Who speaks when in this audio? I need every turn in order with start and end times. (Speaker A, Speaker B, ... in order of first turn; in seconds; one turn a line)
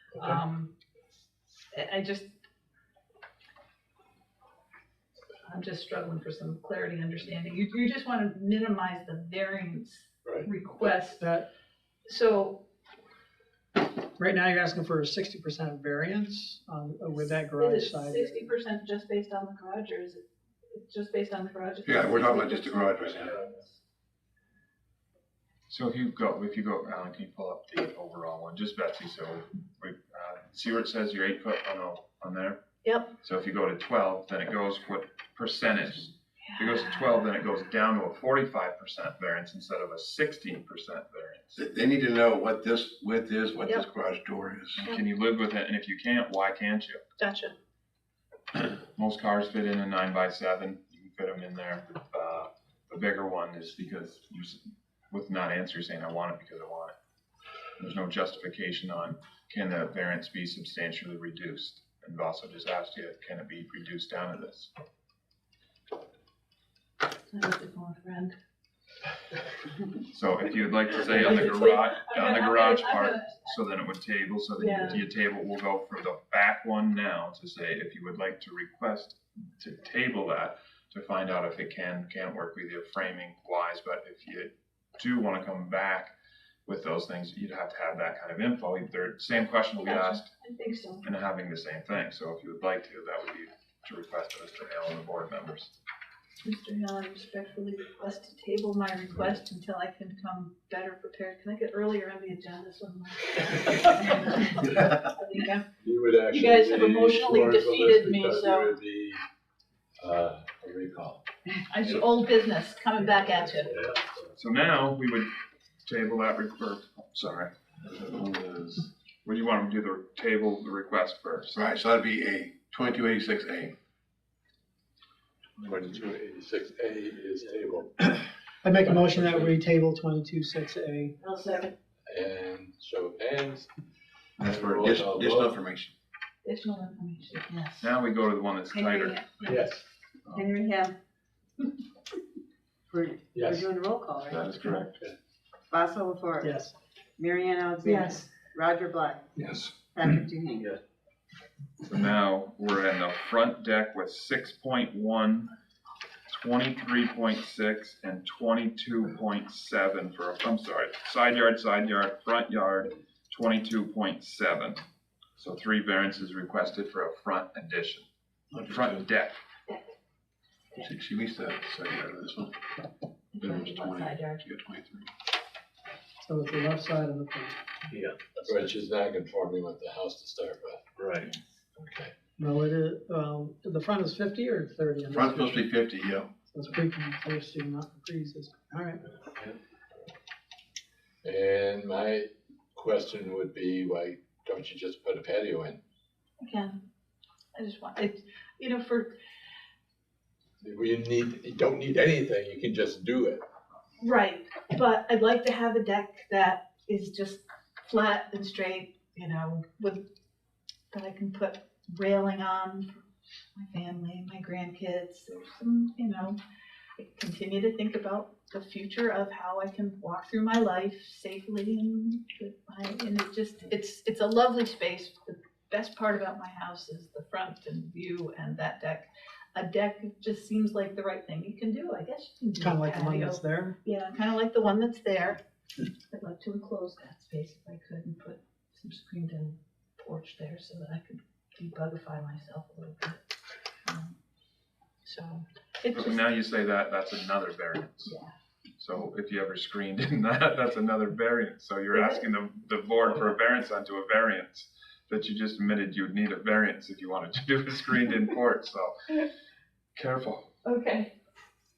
Speaker A: 0.2-0.8
Speaker A: 1.7-2.3
Speaker A: 5.4-11.2
Speaker B: 11.2-11.5
Speaker A: 12.1-12.7
Speaker B: 14.2-18.4
Speaker A: 17.5-23.8
Speaker C: 21.8-23.4
Speaker D: 25.7-32.6
Speaker A: 32.8-33.1
Speaker D: 33.2-41.6
Speaker A: 36.5-37.2
Speaker C: 41.5-44.8
Speaker D: 44.8-47.0
Speaker A: 47.2-47.5
Speaker D: 48.9-56.9
Speaker D: 57.8-64.7
Speaker A: 67.3-68.3
Speaker D: 70.1-86.1
Speaker A: 71.1-73.5
Speaker A: 74.6-75.0
Speaker D: 86.7-90.3
Speaker A: 89.8-91.1
Speaker D: 91.0-95.7
Speaker A: 96.4-105.7
Speaker E: 105.8-109.2
Speaker A: 106.3-108.8
Speaker E: 110.0-111.2
Speaker A: 111.7-113.8
Speaker E: 113.6-114.2
Speaker D: 114.3-115.3
Speaker D: 115.8-117.5
Speaker C: 117.8-118.9
Speaker D: 119.2-121.6
Speaker C: 121.5-123.8
Speaker E: 125.7-129.6
Speaker B: 128.6-131.2
Speaker F: 131.2-131.7
Speaker E: 132.1-133.7
Speaker E: 134.4-135.6
Speaker C: 134.4-135.9
Speaker A: 136.4-137.9
Speaker D: 137.8-139.5
Speaker A: 138.7-139.6
Speaker E: 139.4-139.8
Speaker F: 140.3-140.9
Speaker F: 142.9-144.5
Speaker E: 143.3-143.7
Speaker D: 144.2-145.0
Speaker F: 145.7-146.6
Speaker B: 146.4-146.7
Speaker F: 147.2-149.3
Speaker A: 147.8-148.3
Speaker E: 149.4-149.7
Speaker F: 149.9-150.8
Speaker D: 151.9-155.5
Speaker D: 156.3-164.8
Speaker D: 165.4-168.1
Speaker C: 168.5-169.0
Speaker D: 168.7-169.4
Speaker C: 170.8-172.6
Speaker A: 173.3-174.5
Speaker C: 173.4-175.1
Speaker B: 176.2-178.0
Speaker E: 178.3-181.0
Speaker E: 181.8-182.1
Speaker B: 182.4-185.7
Speaker C: 185.1-186.3
Speaker B: 186.5-189.2
Speaker E: 191.2-195.8
Speaker A: 196.4-196.8
Speaker A: 197.6-199.2
Speaker E: 200.6-203.4
Speaker A: 204.0-210.1
Speaker A: 210.9-213.0
Speaker A: 213.6-216.4
Speaker A: 217.0-235.4
Speaker B: 232.6-233.8
Speaker A: 236.1-243.2
Speaker A: 243.8-244.1
Speaker A: 245.0-246.2
Speaker D: 245.9-248.1
Speaker A: 248.1-248.3
Speaker D: 248.8-258.9
Speaker A: 251.9-252.2
Speaker D: 259.9-260.5
Speaker A: 260.6-261.1